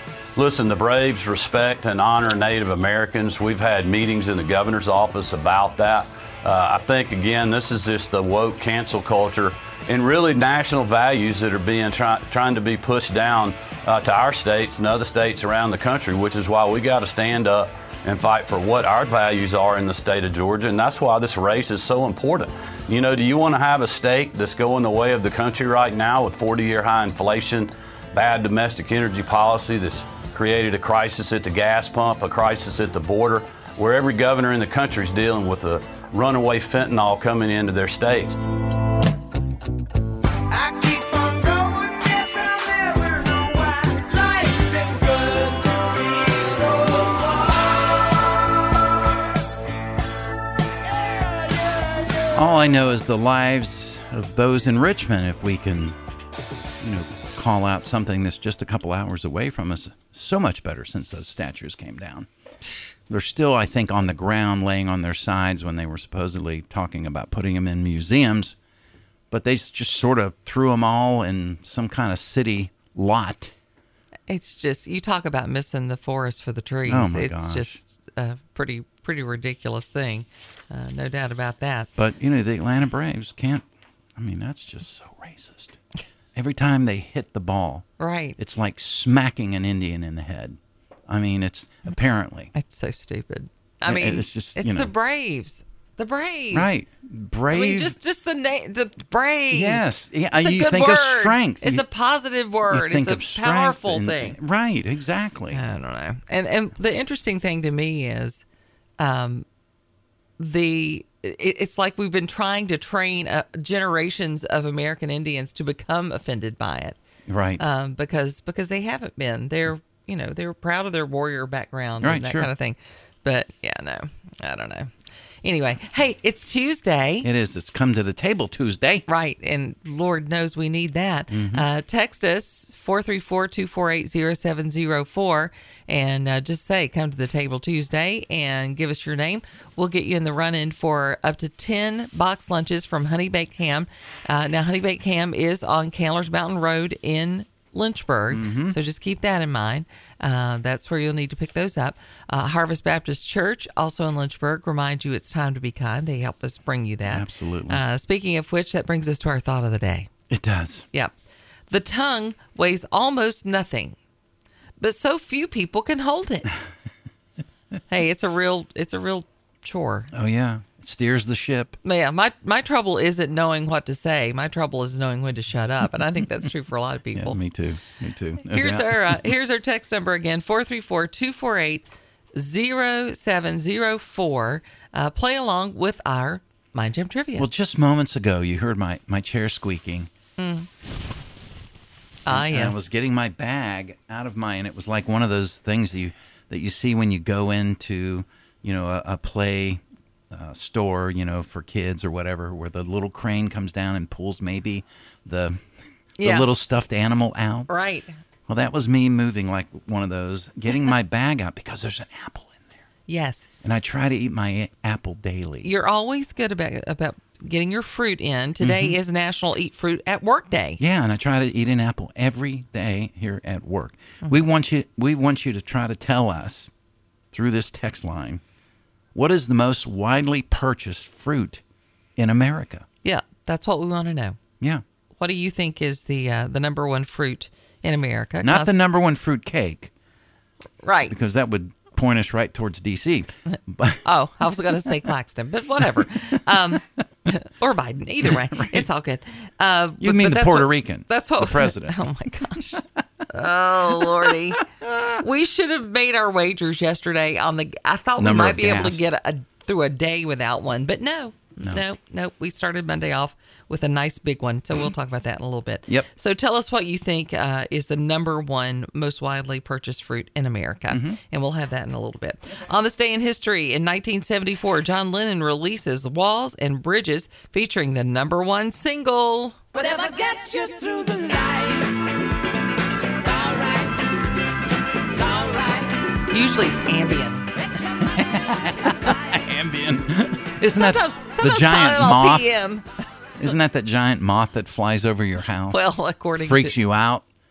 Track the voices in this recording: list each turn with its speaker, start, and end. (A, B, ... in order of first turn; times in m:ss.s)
0:00.4-0:38.4 A
0:40.5-0:48.4 B
0:51.0-0:52.3 B
0:52.3-0:56.0 C
0:56.8-1:02.3 C
1:03.1-1:08.6 C
1:09.3-1:13.5 C
1:14.3-1:21.9 D
1:16.9-1:17.8 C
1:22.0-1:23.6 C
1:24.2-1:25.8 C
1:26.4-1:27.9 C
1:28.0-1:28.4 D
1:28.4-1:32.5 C
1:32.5-1:36.7 D
1:33.9-1:34.9 C
1:36.5-1:38.0 C
1:37.5-1:44.4 D
1:39.5-1:41.9 C
1:42.7-1:45.6 C
1:45.5-1:48.4 D
1:49.0-1:49.4 D
1:50.4-1:57.0 D
1:57.3-1:57.6 C
1:57.6-2:04.9 D
2:02.0-2:02.5 C
2:05.4-2:07.3 D
2:07.2-2:09.0 C
2:09.1-2:40.1 D
2:11.3-2:11.7 C
2:28.3-2:28.8 C
2:37.1-2:37.8 C
2:40.3-2:40.9 C
2:41.7-2:44.0 D
2:44.8-2:46.5 D
2:47.9-2:50.1 D
2:50.1-2:51.8 C
2:51.8-2:57.4 D
2:57.1-2:59.3 C
2:58.4-3:07.5 D
3:07.4-3:10.1 C
3:10.4-3:10.7 D
3:12.3-3:12.8 D
3:12.3-3:25.6 C
3:26.2-3:26.5 D
3:26.2-3:27.7 C
3:27.7-3:28.1 D
3:28.5-3:32.6 C
3:33.1-3:33.5 D
3:33.6-3:35.7 C
3:35.6-3:40.8 D
3:38.6-3:39.0 C
3:40.8-3:46.7 C
3:47.3-3:48.4 C
3:49.2-3:51.6 C
3:52.2-3:52.9 C
3:53.0-3:54.4 D
3:55.2-3:58.8 D
3:58.4-3:59.9 C
4:00.8-4:01.1 D
4:01.1-4:04.0 C
4:03.5-4:14.6 D
4:08.2-4:08.9 C
4:10.0-4:12.0 C
4:14.0-4:15.1 C
4:15.2-4:39.6 D
4:18.2-4:19.1 C
4:30.9-4:31.2 C
4:40.2-4:41.3 B
4:46.3-4:47.5 D
4:48.1-4:52.5 C
4:50.7-4:52.9 D
4:53.4-4:57.2 C
4:55.7-4:56.8 D